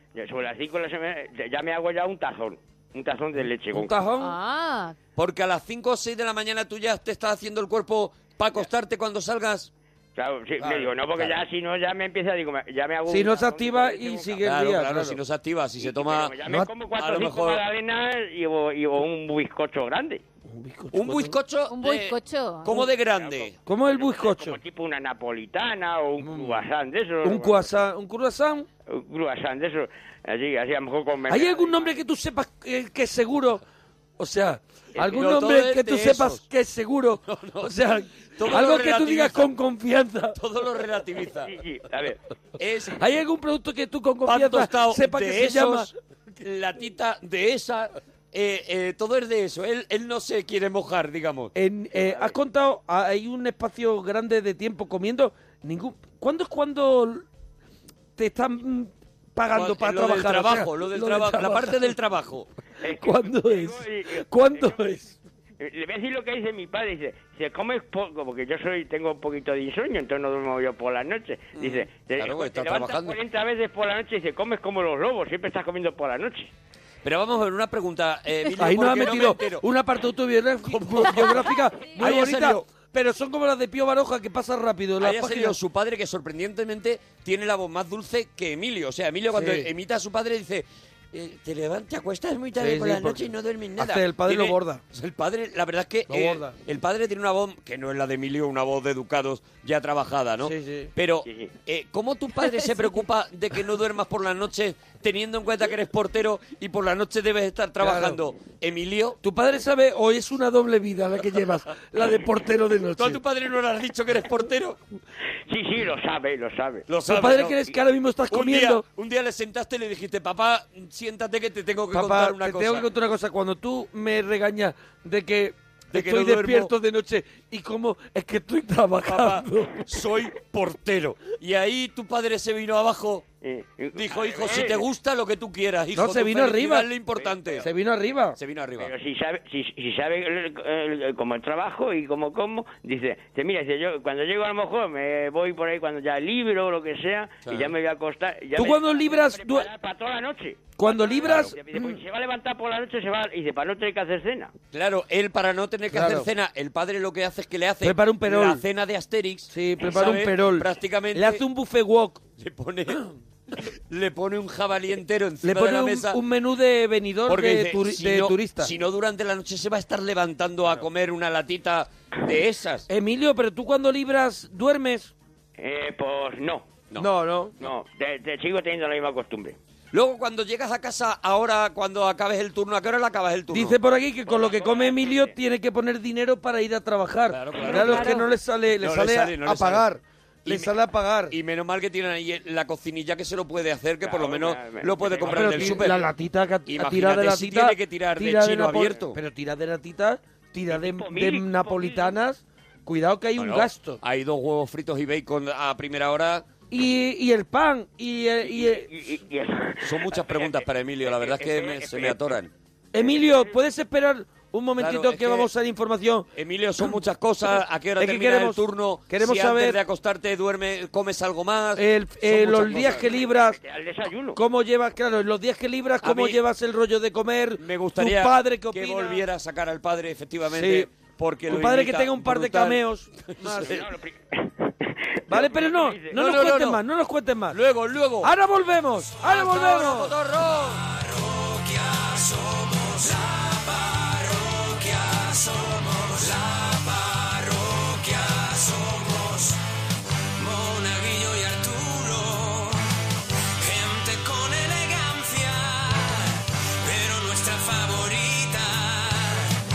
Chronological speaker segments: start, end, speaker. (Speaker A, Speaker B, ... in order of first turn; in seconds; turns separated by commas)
Speaker A: 0.1-4.0, Speaker B: 3.7-4.3, Speaker C: 4.2-4.9, Speaker D: 5.2-9.7, Speaker A: 10.2-14.4, Speaker B: 13.1-15.2, Speaker D: 14.4-16.4, Speaker A: 15.8-20.2, Speaker B: 16.4-16.7, Speaker D: 16.9-17.6, Speaker B: 20.5-21.4, Speaker D: 20.9-23.5, Speaker C: 21.7-22.8, Speaker A: 23.1-27.7, Speaker B: 23.6-24.6, Speaker B: 26.2-26.6, Speaker B: 27.2-28.6, Speaker A: 28.9-31.9, Speaker B: 31.3-33.6, Speaker B: 34.2-40.4, Speaker D: 35.0-36.4, Speaker D: 37.2-37.8, Speaker D: 38.4-39.5, Speaker D: 40.3-41.5, Speaker A: 41.5-42.2, Speaker D: 42.6-43.0, Speaker B: 43.0-45.9, Speaker D: 44.2-51.5, Speaker B: 51.5-57.2, Speaker B: 58.2-61.9, Speaker D: 59.5-62.5, Speaker A: 62.8-64.8, Speaker B: 63.0-65.2, Speaker A: 65.6-76.5, Speaker D: 71.5-73.2, Speaker D: 77.0-79.6, Speaker B: 78.6-85.5, Speaker D: 80.6-82.6, Speaker D: 85.0-109.2, Speaker B: 89.3-89.7, Speaker B: 92.6-93.3, Speaker B: 93.8-94.8, Speaker B: 96.1-96.5, Speaker B: 100.4-100.9, Speaker A: 101.2-101.5, Speaker B: 107.8-108.2, Speaker B: 109.2-113.2, Speaker D: 113.0-114.8, Speaker A: 115.5-116.8, Speaker D: 116.9-117.6, Speaker B: 117.1-118.8, Speaker D: 118.3-122.9, Speaker B: 121.9-129.8, Speaker D: 125.9-126.7, Speaker D: 129.0-133.2, Speaker A: 133.4-134.8, Speaker D: 133.9-137.7, Speaker B: 135.9-136.9, Speaker A: 137.2-137.7, Speaker B: 137.6-138.4, Speaker D: 138.4-138.9, Speaker A: 138.8-154.5, Speaker D: 147.4-147.7, Speaker B: 148.5-149.7, Speaker B: 150.8-151.9, Speaker D: 151.2-151.5, Speaker D: 154.7-161.4, Speaker B: 155.9-156.3, Speaker B: 157.8-158.6, Speaker B: 159.5-162.2, Speaker D: 162.4-163.1, Speaker D: 163.9-166.2, Speaker B: 165.4-168.7, Speaker D: 167.3-172.9, Speaker B: 172.9-175.1, Speaker A: 175.6-176.7, Speaker B: 177.0-177.5, Speaker A: 177.6-179.6, Speaker D: 179.9-183.8, Speaker B: 183.5-191.3, Speaker A: 184.3-185.3, Speaker D: 187.3-188.3, Speaker C: 187.6-188.3, Speaker D: 188.8-189.9, Speaker D: 190.4-190.8, Speaker D: 191.3-196.0, Speaker A: 194.0-195.9, Speaker B: 195.2-204.0, Speaker D: 196.7-199.2, Speaker A: 200.7-202.2, Speaker D: 203.4-206.5, Speaker B: 206.7-208.9, Speaker A: 208.4-212.4, Speaker D: 209.8-212.5, Speaker B: 212.9-216.2, Speaker A: 213.0-213.5, Speaker D: 214.8-215.5, Speaker D: 216.3-223.1, Speaker B: 217.5-219.8, Speaker B: 221.8-223.6, Speaker A: 222.8-224.4, Speaker B: 224.3-229.2, Speaker D: 226.0-226.4, Speaker D: 227.6-233.8, Speaker B: 230.5-230.9, Speaker B: 231.5-233.8, Speaker A: 233.6-236.2, Speaker B: 235.3-237.6, Speaker D: 236.1-236.8, Speaker D: 237.5-238.3, Speaker B: 238.2-240.1, Speaker D: 239.2-240.8, Speaker E: 240.7-249.6, Speaker E: 250.4-252.9, Speaker E: 253.6-259.5